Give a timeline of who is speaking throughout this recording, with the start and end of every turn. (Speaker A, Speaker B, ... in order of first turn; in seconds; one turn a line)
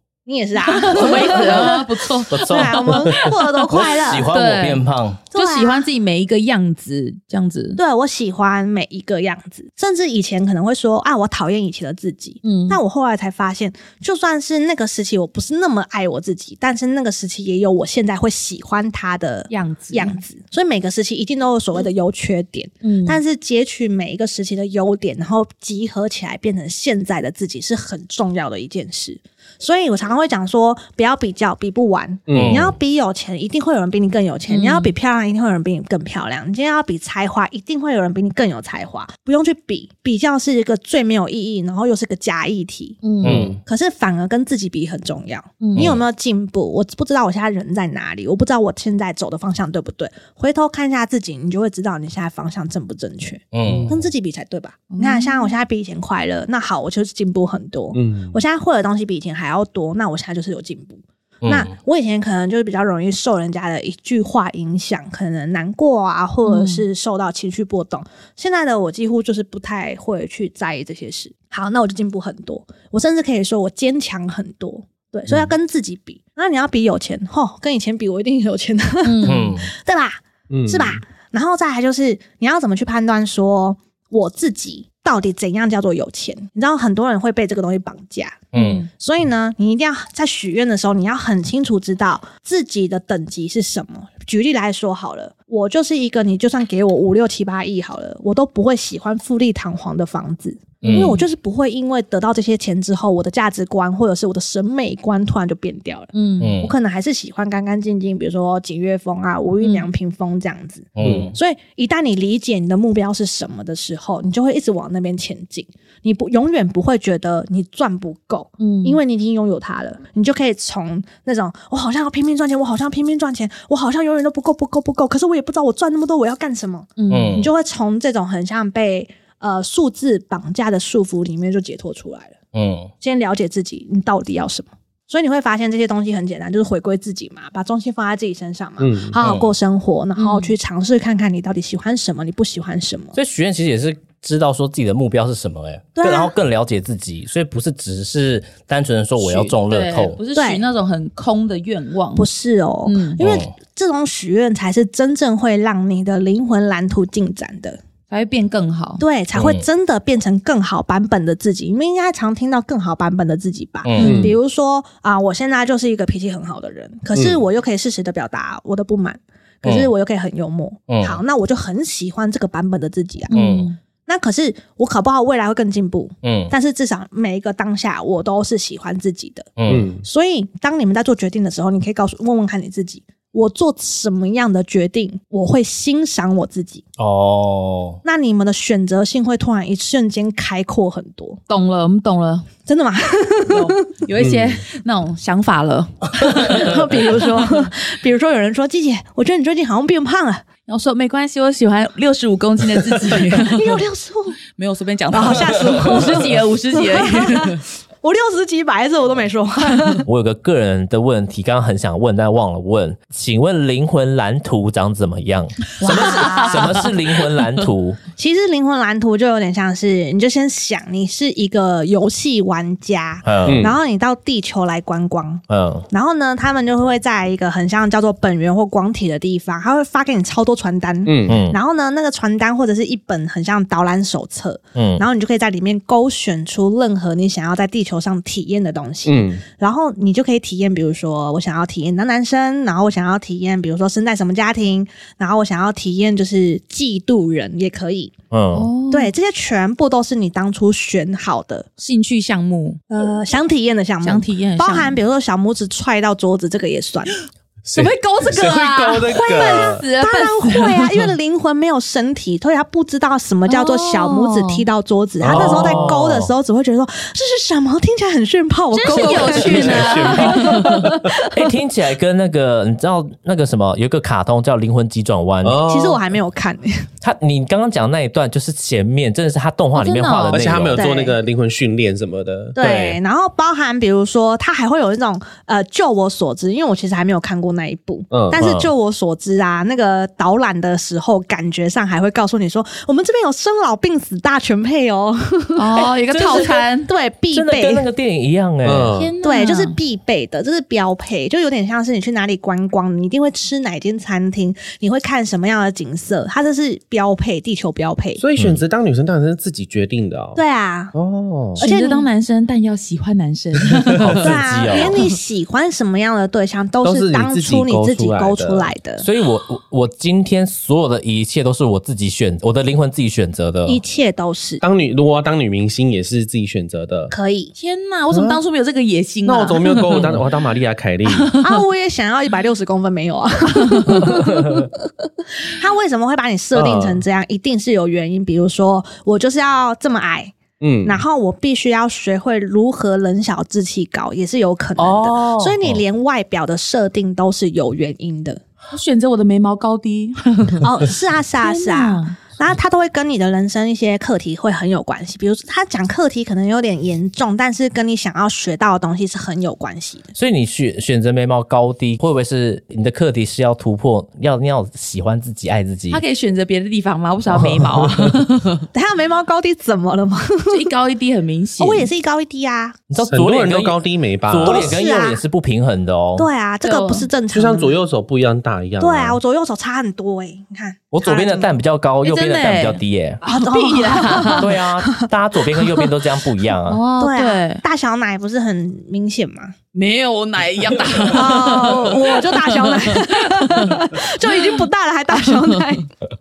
Speaker A: 0.2-4.3
Speaker B: 0.6-7.8
Speaker C: 1.1-1.7
Speaker C: 2.3-2.8
Speaker C: 3.7-5.2
Speaker A: 5.3-5.9
Speaker A: 7.8-43.0
Speaker B: 12.4-12.8
Speaker B: 19.5-20.2
Speaker B: 22.8-23.2
Speaker D: 32.3-32.7
Speaker C: 32.3-32.7
Speaker B: 34.5-34.9
Speaker B: 43.0-43.4
Speaker C: 43.2-43.6
Speaker D: 43.2-43.6
Speaker A: 43.6-132.4
Speaker B: 45.6-45.9
Speaker C: 53.5-54.0
Speaker B: 53.6-53.9
Speaker B: 54.9-55.5
Speaker D: 57.9-58.4
Speaker C: 61.4-61.7
Speaker B: 66.5-66.8
Speaker B: 79.0-79.6
Speaker C: 79.2-79.7
Speaker D: 80.5-81.0
Speaker C: 88.5-88.8
Speaker B: 88.5-88.9
Speaker B: 100.8-101.2
Speaker C: 100.8-101.1
Speaker B: 106.1-106.5
Speaker C: 106.4-106.7
Speaker B: 109.6-109.9
Speaker C: 111.0-111.3
Speaker D: 111.0-111.3
Speaker B: 118.6-119.0
Speaker B: 127.0-127.5
Speaker C: 127.1-127.5
Speaker C: 132.5-132.9
Speaker A: 133.0-143.1
Speaker D: 138.8-139.2
Speaker C: 139.2-139.5
Speaker B: 140.2-140.5
Speaker C: 143.1-150.2
Speaker A: 146.0-146.3
Speaker B: 149.2-152.2
Speaker A: 150.3-150.6
Speaker A: 152.1-157.8
Speaker B: 152.8-153.2
Speaker C: 153.2-153.5
Speaker B: 158.1-159.0
Speaker A: 159.0-173.3
Speaker C: 159.3-159.6
Speaker C: 163.8-164.2
Speaker B: 164.0-164.3
Speaker D: 164.0-164.3
Speaker D: 167.1-167.4
Speaker C: 169.6-169.9
Speaker C: 170.9-171.2
Speaker B: 173.3-173.8
Speaker C: 173.3-173.7
Speaker A: 174.1-186.8
Speaker C: 176.2-176.5
Speaker C: 179.6-179.9
Speaker D: 179.7-180.0
Speaker C: 187.0-188.0
Speaker A: 188.0-191.4
Speaker B: 191.5-192.5
Speaker A: 192.7-193.8
Speaker B: 193.4-197.7
Speaker D: 194.2-194.6
Speaker A: 196.4-200.4
Speaker B: 200.7-203.8
Speaker A: 203.3-204.4
Speaker B: 204.5-207.6
Speaker A: 205.1-210.1
Speaker C: 210.1-218.0
Speaker B: 215.8-216.9
Speaker A: 215.8-216.9
Speaker A: 218.2-248.1
Speaker C: 223.2-223.7
Speaker D: 223.4-223.8
Speaker C: 225.5-225.9
Speaker D: 231.1-231.4
Speaker C: 231.3-231.6
Speaker C: 234.8-235.0
Speaker D: 239.1-239.4
Speaker C: 248.3-248.7
Speaker B: 248.5-249.1
Speaker A: 248.9-251.7
Speaker B: 251.8-252.8
Speaker A: 252.9-257.1
Speaker B: 254.0-255.0
Speaker D: 257.6-259.8
Speaker B: 257.7-261.1
Speaker A: 259.1-271.5
Speaker B: 263.5-264.6
Speaker D: 265.2-265.9
Speaker C: 265.3-266.3
Speaker B: 268.7-270.9
Speaker D: 268.9-271.1
Speaker C: 269.3-270.2
Speaker C: 271.1-275.6
Speaker D: 275.4-276.0
Speaker A: 275.6-276.9
Speaker C: 277.0-280.8
Speaker B: 279.7-280.6
Speaker D: 280.3-282.9
Speaker A: 280.7-281.1
Speaker A: 282.6-297.9
Speaker D: 288.1-288.4
Speaker C: 288.4-288.7
Speaker B: 295.5-296.9
Speaker C: 296.1-296.6
Speaker C: 297.3-298.9
Speaker D: 298.6-299.1
Speaker B: 298.9-299.8
Speaker A: 299.2-308.2
Speaker D: 308.2-310.4
Speaker A: 310.4-310.9
Speaker D: 310.9-311.6
Speaker A: 311.6-312.1
Speaker B: 311.6-314.3
Speaker C: 314.0-314.9
Speaker A: 314.0-319.1
Speaker D: 316.8-318.7
Speaker C: 319.0-323.8
Speaker A: 323.6-324.6
Speaker D: 324.6-327.1
Speaker A: 327.1-327.5
Speaker B: 327.5-330.0
Speaker D: 328.1-328.4
Speaker D: 329.2-331.3
Speaker B: 331.1-331.5
Speaker A: 331.4-348.4
Speaker B: 333.6-334.1
Speaker D: 336.5-337.0
Speaker D: 340.6-341.0
Speaker C: 344.8-345.6
Speaker B: 345.1-345.4
Speaker B: 348.7-350.7
Speaker A: 350.6-360.1
Speaker B: 351.4-352.2
Speaker C: 360.1-366.0
Speaker B: 365.9-368.7
Speaker C: 367.3-367.9
Speaker A: 368.7-370.7
Speaker B: 370.5-371.9
Speaker A: 371.6-372.8
Speaker C: 372.9-376.3
Speaker D: 373.1-374.7
Speaker A: 374.4-375.2
Speaker A: 376.1-377.7
Speaker B: 376.6-377.1
Speaker D: 377.3-379.2
Speaker A: 378.8-381.6
Speaker C: 380.9-383.2
Speaker B: 382.0-384.5
Speaker A: 383.2-385.1
Speaker C: 384.2-386.8
Speaker B: 386.7-387.6
Speaker A: 387.0-389.5
Speaker B: 389.7-394.6
Speaker A: 391.1-395.9
Speaker B: 395.1-395.8